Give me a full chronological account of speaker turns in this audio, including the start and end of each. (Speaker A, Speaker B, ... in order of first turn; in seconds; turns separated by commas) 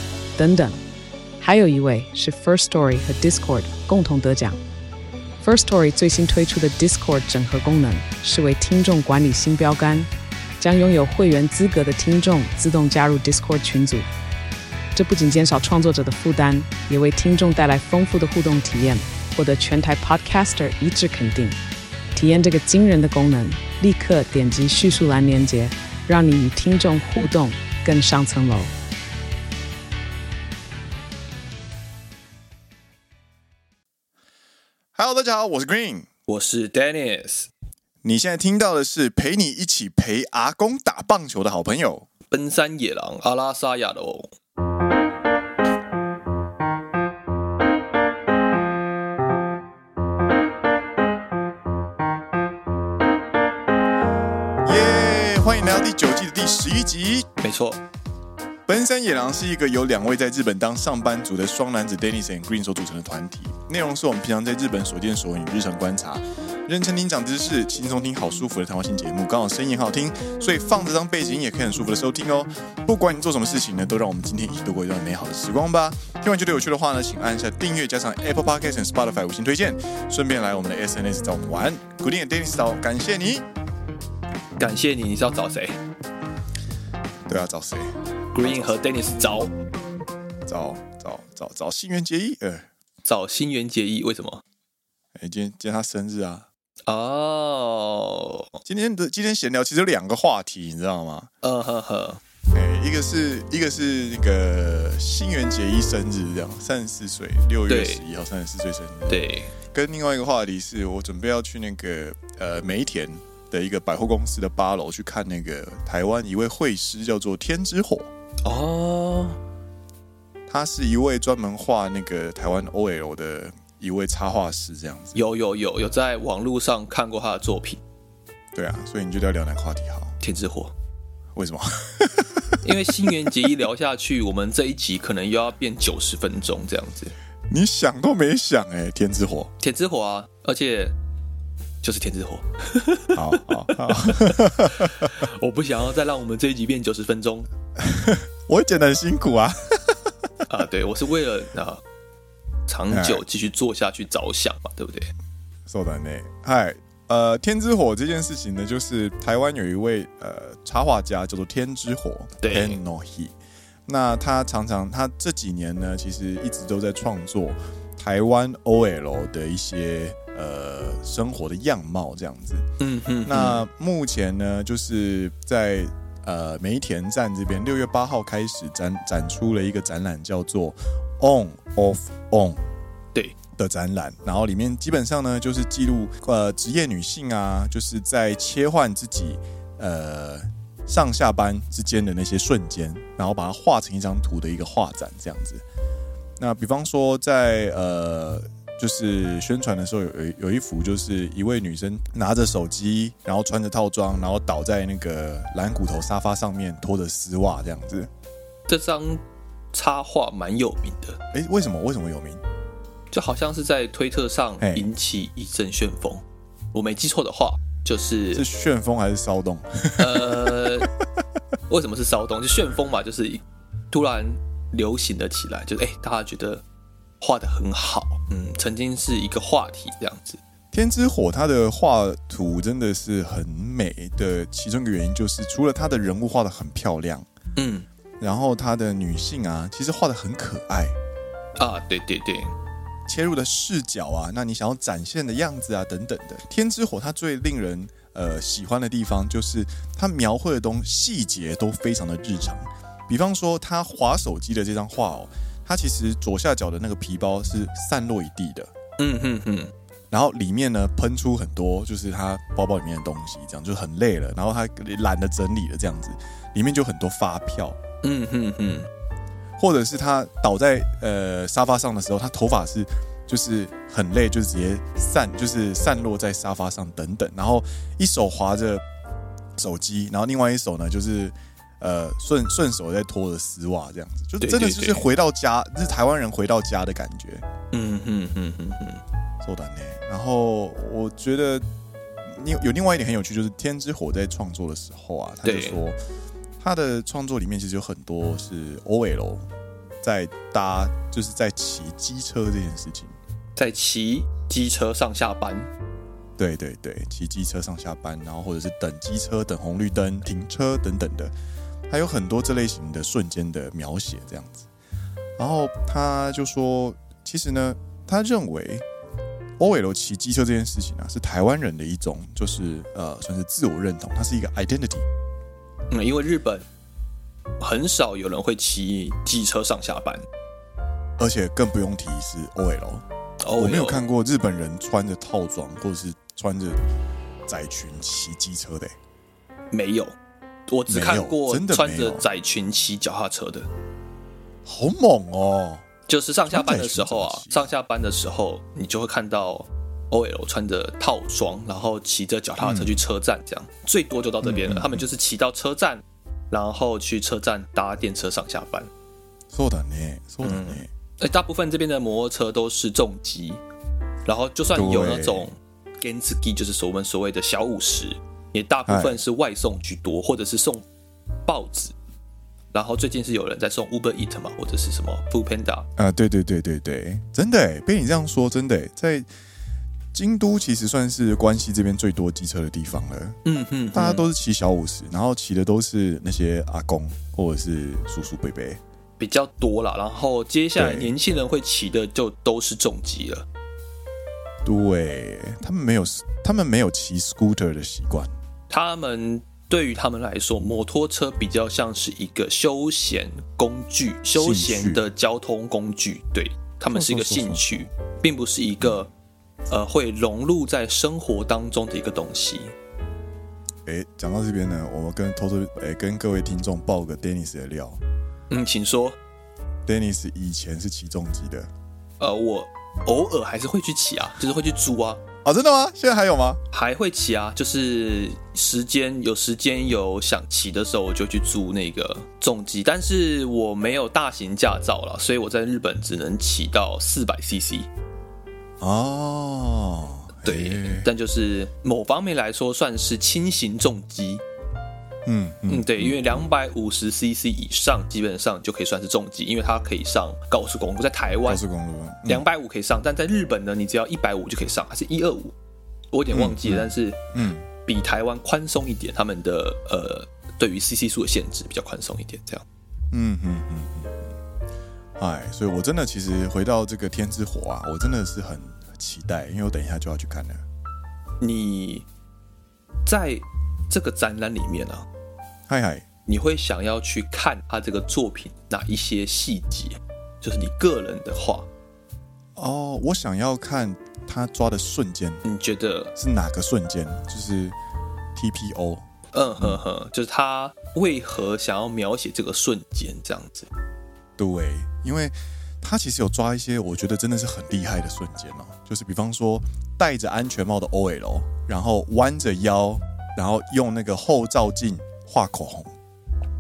Speaker A: 0.3-0.8, Speaker A: 1.4-4.6, Speaker A: 5.4-14.1, Speaker A: 14.9-21.6, Speaker A: 22.1-28.7, Speaker B: 35.0-36.1, Speaker C: 36.3-37.5, Speaker B: 38.0-42.1, Speaker C: 42.3-44.3, Speaker B: 54.6-57.3, Speaker C: 57.4-57.8, Speaker B: 58.6-83.5, Speaker C: 84.6-85.8, Speaker B: 87.3-87.9, Speaker C: 88.3-89.5, Speaker B: 90.5-92.7, Speaker C: 93.0-94.4, Speaker B: 95.2-96.5, Speaker C: 96.9-98.5, Speaker B: 98.6-101.3, Speaker C: 101.4-102.2, Speaker B: 102.5-118.1, Speaker C: 107.7-108.0, Speaker C: 109.1-109.5, Speaker C: 118.4-119.4, Speaker B: 120.5-125.2, Speaker C: 125.1-127.8, Speaker B: 128.5-130.1, Speaker C: 130.2-130.7, Speaker B: 131.3-132.6, Speaker C: 132.6-137.1, Speaker B: 137.5-139.5, Speaker C: 139.6-140.9, Speaker C: 141.8-147.5, Speaker B: 143.1-145.1, Speaker B: 147.8-150.1, Speaker C: 150.5-151.8, Speaker C: 152.7-155.1, Speaker B: 152.9-153.2, Speaker B: 155.7-163.3, Speaker C: 162.4-162.8, Speaker B: 163.9-172.7, Speaker C: 172.8-173.6, Speaker B: 173.2-182.6, Speaker B: 183.6-195.6, Speaker B: 196.4-208.1, Speaker C: 208.7-211.2, Speaker B: 211.3-212.4, Speaker C: 213.1-218.4, Speaker B: 214.6-214.9, Speaker B: 218.3-220.8, Speaker C: 220.0-220.9, Speaker C: 221.7-226.6, Speaker C: 227.2-230.4, Speaker B: 230.7-237.3, Speaker C: 237.6-237.9, Speaker B: 238.2-240.9, Speaker C: 241.6-242.5, Speaker B: 243.1-258.7, Speaker C: 259.0-259.7, Speaker B: 260.1-267.8, Speaker C: 268.0-268.9, Speaker B: 269.6-278.8, Speaker B: 279.6-287.4, Speaker C: 284.4-285.1, Speaker C: 287.7-289.0, Speaker B: 289.4-291.6, Speaker B: 292.2-296.0, Speaker C: 295.4-295.8, Speaker B: 296.6-299.4, Speaker B: 300.0-303.1, Speaker C: 303.6-305.7, Speaker B: 306.4-311.3, Speaker B: 311.9-314.7, Speaker B: 315.4-318.8, Speaker B: 319.6-325.1, Speaker C: 325.9-326.6, Speaker C: 327.6-330.2, Speaker B: 331.2-336.8, Speaker C: 333.4-334.0, Speaker B: 337.5-338.9, Speaker C: 339.7-340.1, Speaker C: 340.7-343.7, Speaker B: 340.9-342.2, Speaker B: 344.6-345.8, Speaker C: 346.1-358.9, Speaker B: 346.5-347.7, Speaker B: 352.6-353.0, Speaker B: 354.4-355.0, Speaker B: 359.5-360.9, Speaker C: 360.4-363.6, Speaker C: 364.2-370.9, Speaker B: 364.7-365.5, Speaker B: 368.9-369.2, Speaker C: 371.4-371.9, Speaker C: 372.7-375.9, Speaker B: 376.0-379.3, Speaker B: 380.1-383.4, Speaker C: 383.4-384.2, Speaker B: 383.9-388.8, Speaker C: 389.2-393.4, Speaker B: 390.8-391.1, Speaker B: 394.6-398.3, Speaker C: 398.7-409.1, Speaker B: 404.3-405.1, Speaker B: 406.9-407.9, Speaker C: 409.7-412.7, Speaker B: 413.8-418.0, Speaker C: 418.5-419.2, Speaker B: 419.9-421.7, Speaker C: 422.2-425.2, Speaker B: 425.4-426.6, Speaker C: 426.7-437.9, Speaker B: 438.8-441.1, Speaker C: 440.4-444.4, Speaker B: 445.2-446.2, Speaker C: 445.7-451.6, Speaker B: 451.5-452.4, Speaker C: 452.2-455.5, Speaker C: 456.1-457.2, Speaker B: 456.3-457.7, Speaker C: 457.8-462.6, Speaker B: 463.1-464.3, Speaker B: 465.2-470.6, Speaker C: 471.4-472.1, Speaker C: 473.0-475.1, Speaker B: 475.7-476.0, Speaker C: 476.2-481.7, Speaker B: 482.6-485.4, Speaker C: 485.4-486.1, Speaker B: 486.1-487.8, Speaker B: 488.3-489.0, Speaker C: 489.3-493.7, Speaker B: 494.4-505.9